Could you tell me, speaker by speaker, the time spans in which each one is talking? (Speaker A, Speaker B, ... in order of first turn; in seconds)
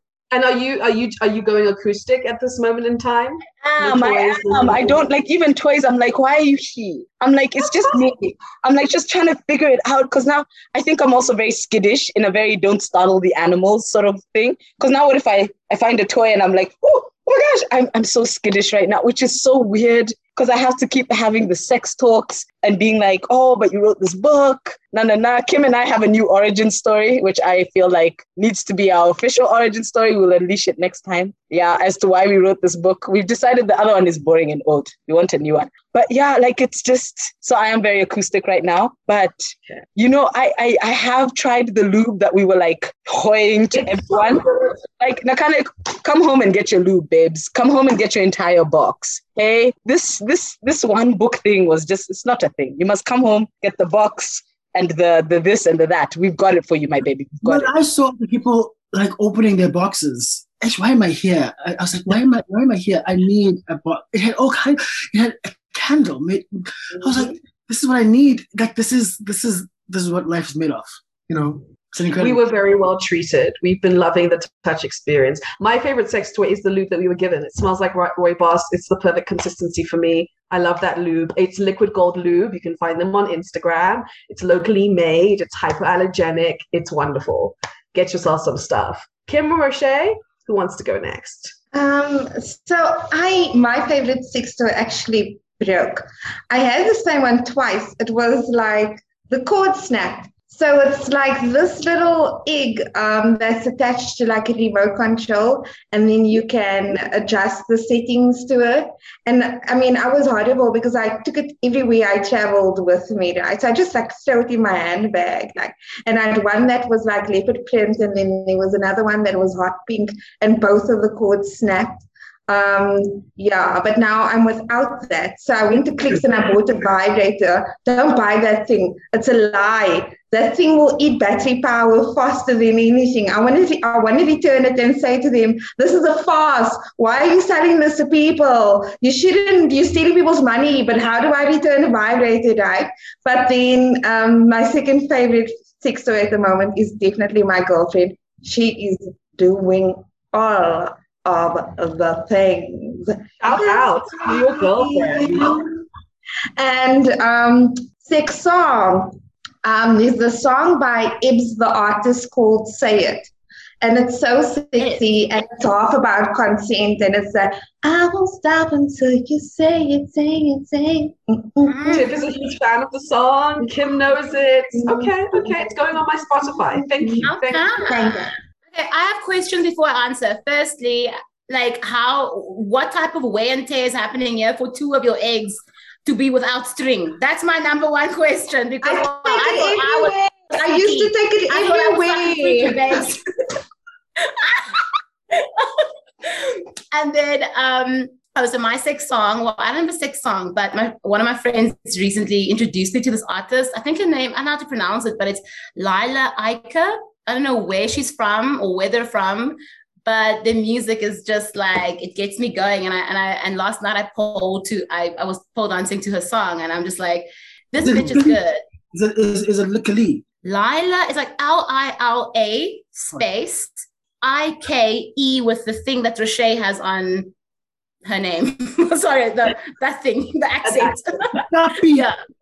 Speaker A: 0.3-5.0, 43.7-44.7, 67.0-67.3, 72.2-91.5, 153.4-155.6, 171.9-177.7, 230.6-231.0
Speaker B: 3.6-57.7
Speaker C: 57.4-72.4, 217.8-218.4, 218.9-220.2, 231.5-232.1
Speaker D: 91.7-155.8, 156.6-163.3, 163.8-172.2, 173.6-173.9, 174.7-178.3, 188.8-193.1
Speaker E: 164.8-165.0, 171.7-172.1, 177.2-193.2, 194.2-218.6, 220.4-227.3, 228.0-232.2